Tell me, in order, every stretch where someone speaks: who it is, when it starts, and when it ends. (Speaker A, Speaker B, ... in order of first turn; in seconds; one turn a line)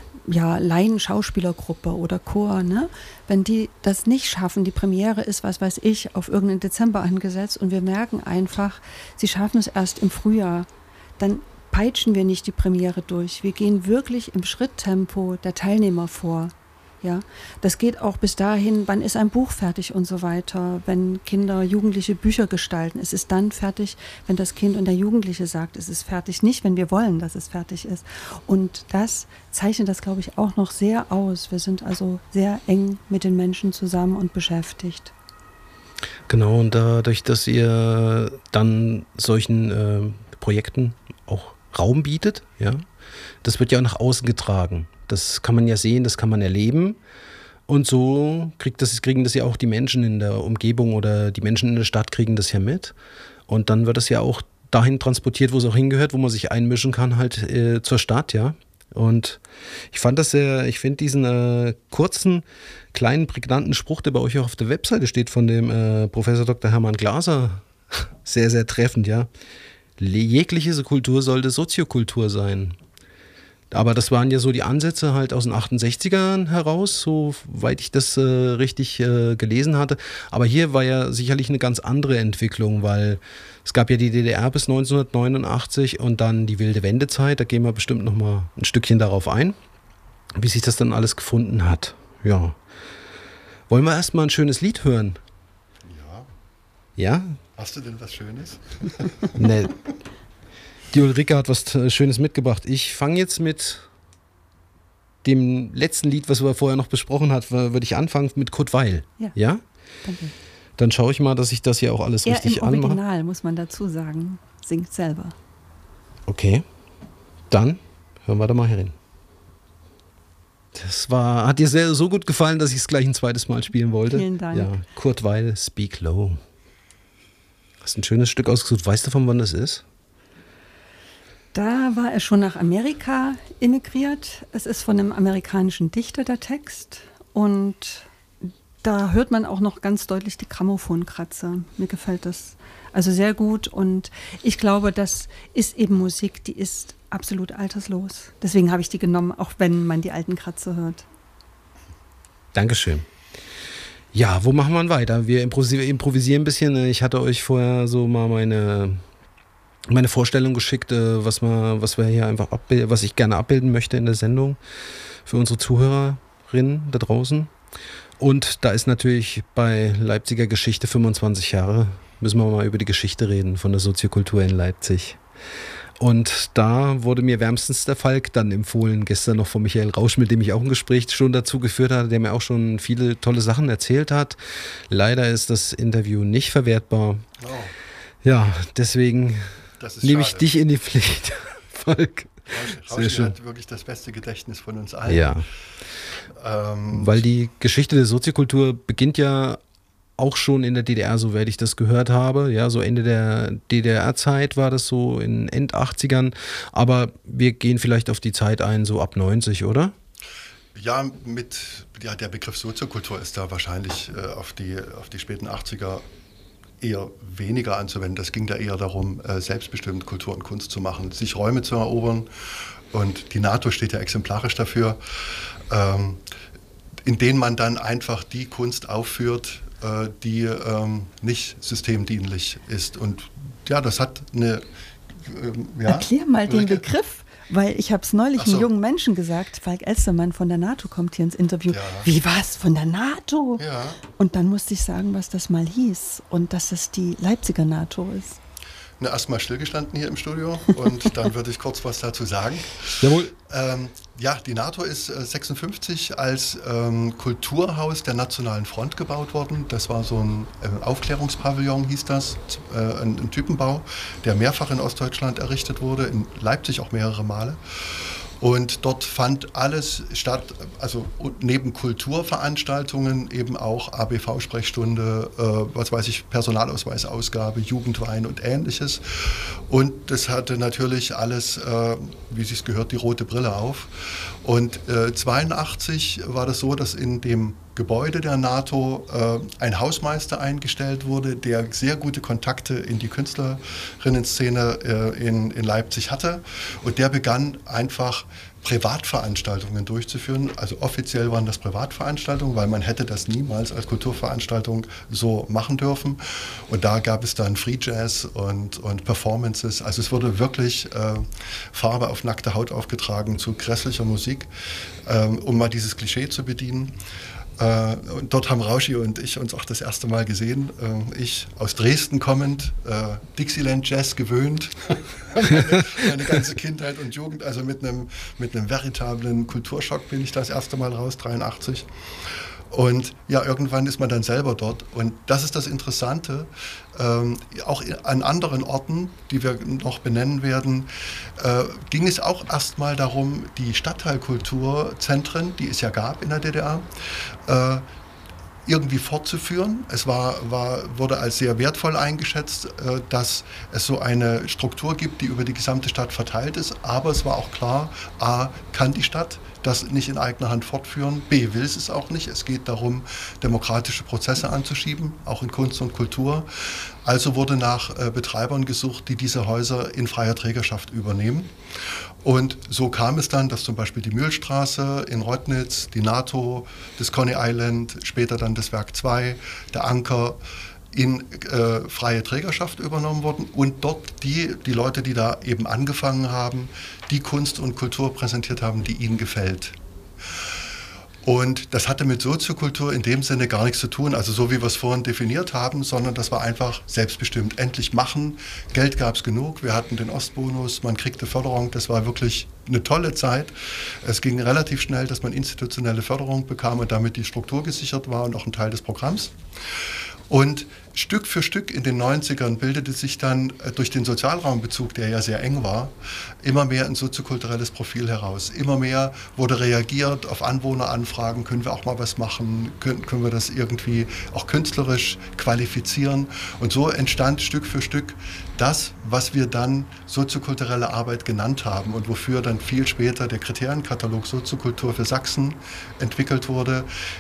Speaker A: 0.3-10.7
Speaker A: 11.2-35.1
Speaker B: 36.3-42.9
Speaker B: 43.4-47.0
Speaker B: 47.7-53.0
Speaker B: 53.5-69.3
Speaker B: 70.0-72.8
Speaker B: 73.7-89.6
Speaker B: 90.4-92.6
Speaker B: 93.7-95.2
Speaker C: 95.8-96.3
Speaker B: 97.0-97.4
Speaker C: 97.6-99.5
Speaker B: 99.4-99.8
Speaker B: 100.9-103.9
Speaker B: 105.2-109.6
Speaker A: 110.0-110.3
Speaker B: 110.8-113.0
Speaker A: 112.2-115.3
Speaker B: 116.3-116.7
Speaker B: 117.5-119.0
Speaker B: 120.7-126.4
Speaker A: 124.1-124.7
Speaker B: 127.8-129.8
Speaker A: 131.5-138.1
Speaker A: 138.8-151.1
Speaker B: 152.5-153.1
Speaker B: 154.1-159.0
Speaker B: 159.9-164.6
Speaker B: 165.3-167.5
Speaker B: 168.2-175.2
Speaker B: 176.0-184.4
Speaker B: 184.9-187.3
Speaker C: 187.4-187.8
Speaker B: 188.2-193.4
Speaker C: 189.8-190.5
Speaker C: 192.5-195.4
Speaker B: 195.1-195.5
Speaker C: 196.4-197.2
Speaker B: 196.9-199.6
Speaker B: 200.2-209.9
Speaker C: 210.8-216.1
Speaker C: 216.8-222.3
Speaker C: 222.9-226.2
Speaker C: 227.1-234.7
Speaker C: 235.2-236.8
Speaker A: 235.9-248.4
Speaker C: 238.4-238.7
Speaker C: 241.7-242.1
Speaker C: 243.6-244.0
Speaker C: 249.0-314.5
Speaker B: 253.0-253.3
Speaker C: 315.1-316.9
Speaker C: 317.6-331.9
Speaker C: 332.7-346.9
Speaker C: 347.5-347.9
Speaker C: 348.7-371.5
Speaker C: 372.2-380.4
Speaker C: 380.9-389.8
Speaker C: 391.2-409.3
Speaker C: 410.3-436.9